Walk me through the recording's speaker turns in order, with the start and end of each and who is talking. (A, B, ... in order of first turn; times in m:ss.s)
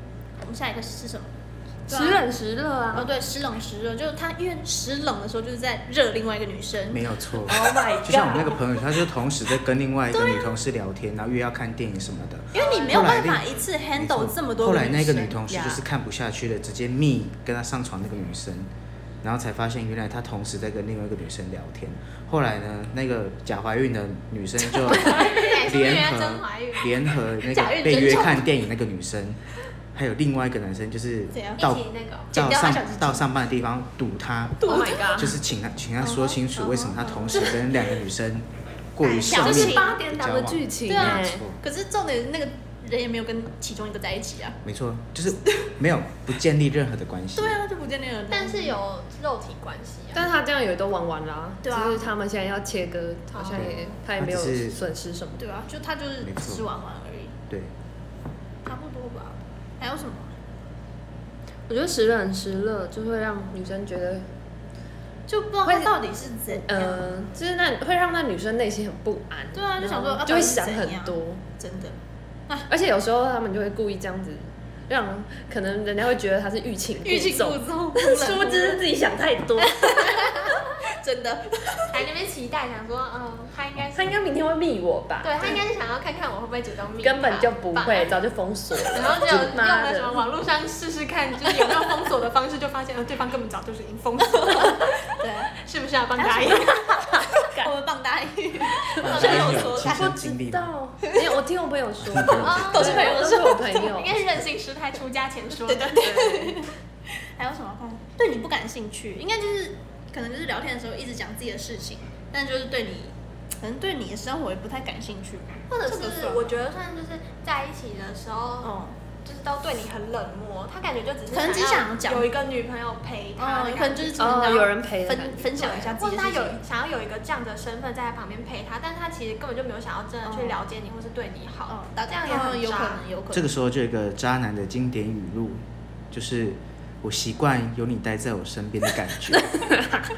0:00.4-0:01.3 A
0:01.9-0:02.2 A
0:01.9-0:03.1 B
0:02.9-0:07.1 A
0:06.9-0:18.7 C
0:07.4-0:08.6 B
0:10.1-0:10.5 A
0:12.5-0:15.4 A
0:12.5-0:13.1 D
0:15.5-0:15.8 B
0:19.2-0:29.4 C
0:24.9-0:27.1 D
0:25.1-0:25.4 A
0:27.4-0:28.5 A
0:29.9-0:41.6 C
0:31.3-0:31.8 A
0:31.6-0:32.3 D
0:32.3-0:33.2 A
0:34.6-0:35.3 A
0:34.6-0:35.4 B
0:36.0-0:37.7 A
0:39.0-0:39.8 D
0:39.2-0:40.0 A
0:39.4-0:41.4 B
0:40.9-0:44.6 A
0:44.6-0:47.6 C
0:45.4-0:45.7 A
0:47.4-0:48.8 A
0:48.3-0:50.3 D
0:50.1-0:55.4 B
0:51.6-0:52.1 A
0:53.3-0:53.9 D
0:53.5-0:54.8 C
0:55.4-0:57.3 A
0:56.2-0:56.6 C
0:58.6-1:00.3 A
1:01.7-1:04.3 B
1:05.3-1:07.1 A
1:05.6-1:05.9 B
1:06.5-1:11.4 B
1:09.5-1:12.0 A
1:12.7-1:20.6 B
1:17.0-1:18.8 A
1:19.6-1:22.0 A
1:21.9-1:24.2 D
1:23.9-1:25.6 B
1:25.2-1:28.1 D
1:27.0-1:30.2 B
1:28.9-1:37.2 D
1:34.4-1:35.5 A
1:36.2-1:40.2 A
1:36.7-1:37.7 B
1:39.0-1:39.9 D
1:39.0-1:40.7 C
1:39.2-1:44.2 B
1:41.0-1:41.3 A
1:42.0-1:42.9 C
1:42.3-1:44.0 A
1:42.4-1:46.5 D
1:45.5-1:46.7 A
1:47.2-1:56.5 A
1:55.7-2:04.4 D
1:58.6-1:59.0 A
2:01.3-2:02.3 A
2:03.4-2:06.6 A
2:04.2-2:05.5 B
2:05.5-2:13.0 D
2:10.2-2:10.6 A
2:11.7-2:13.5 A
2:13.3-2:19.7 C
2:19.5-2:20.1 B